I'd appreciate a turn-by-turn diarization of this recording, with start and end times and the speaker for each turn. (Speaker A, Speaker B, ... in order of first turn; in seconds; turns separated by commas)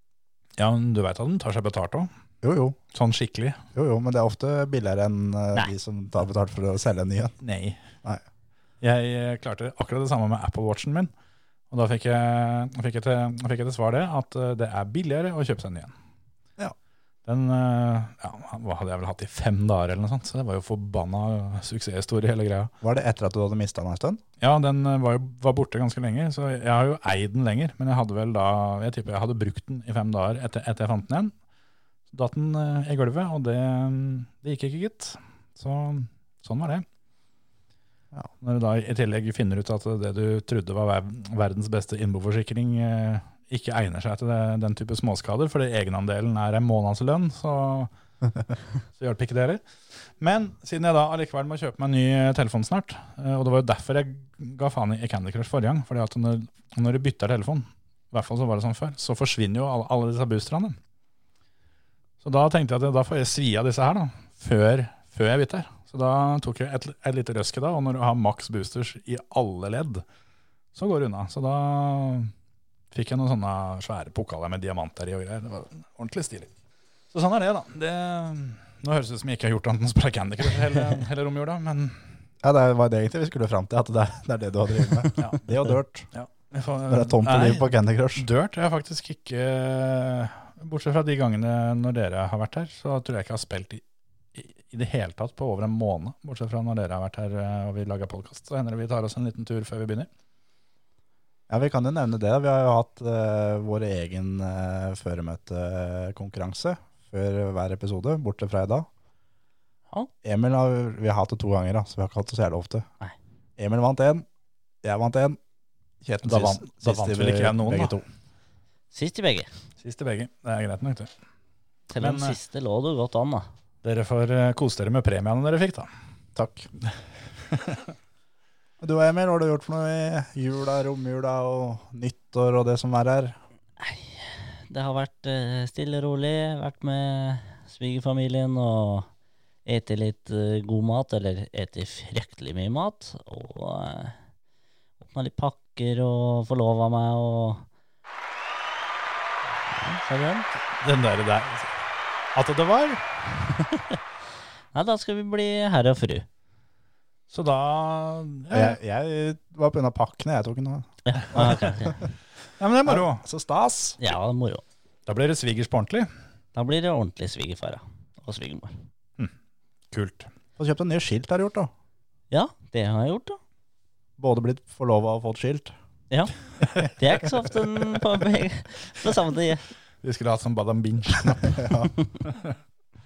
Speaker A: 0.6-2.1, Speaker B: 2.4-2.8, Speaker A: 2.9-3.6, Speaker B: 3.7-7.3, Speaker A: 7.4-7.8, Speaker A: 8.8-11.1, Speaker A: 11.7-15.9, Speaker A: 17.2-22.7, Speaker B: 22.8-24.2, Speaker A: 24.4-31.3, Speaker A: 32.1-36.8, Speaker A: 38.4-47.9, Speaker A: 49.0-60.8, Speaker A: 62.2-70.0, Speaker A: 70.7-72.3, Speaker A: 72.9-76.5, Speaker A: 77.1-82.0, Speaker B: 82.4-86.1, Speaker A: 85.2-85.5, Speaker A: 86.1-93.8, Speaker B: 86.9-88.2, Speaker A: 94.3-100.1, Speaker B: 101.5-108.9, Speaker B: 110.2-112.9, Speaker B: 113.6-114.2, Speaker B: 114.8-115.4, Speaker B: 116.0-118.0, Speaker A: 116.2-118.0, Speaker C: 118.9-119.5, Speaker A: 119.8-121.1, Speaker C: 121.9-123.5, Speaker A: 122.0-122.4, Speaker A: 123.8-125.9, Speaker B: 126.3-126.7, Speaker A: 127.5-127.8, Speaker B: 128.8-133.4, Speaker C: 133.8-139.1, Speaker C: 139.7-144.1, Speaker C: 145.0-147.6, Speaker C: 149.7-150.5, Speaker A: 150.8-151.7, Speaker A: 152.3-153.1, Speaker C: 153.7-154.0, Speaker C: 154.7-156.2, Speaker A: 157.3-158.8, Speaker B: 158.5-162.1, Speaker C: 161.1-162.0, Speaker A: 162.6-163.2, Speaker B: 162.8-164.0, Speaker C: 164.0-164.6, Speaker A: 165.1-166.1, Speaker C: 166.5-168.8, Speaker A: 169.9-170.3, Speaker B: 170.6-171.7, Speaker C: 172.3-173.4, Speaker B: 174.2-175.7, Speaker C: 176.1-176.3, Speaker A: 176.6-176.9, Speaker C: 176.9-179.7, Speaker A: 180.0-181.7, Speaker B: 181.4-181.9, Speaker A: 182.2-182.5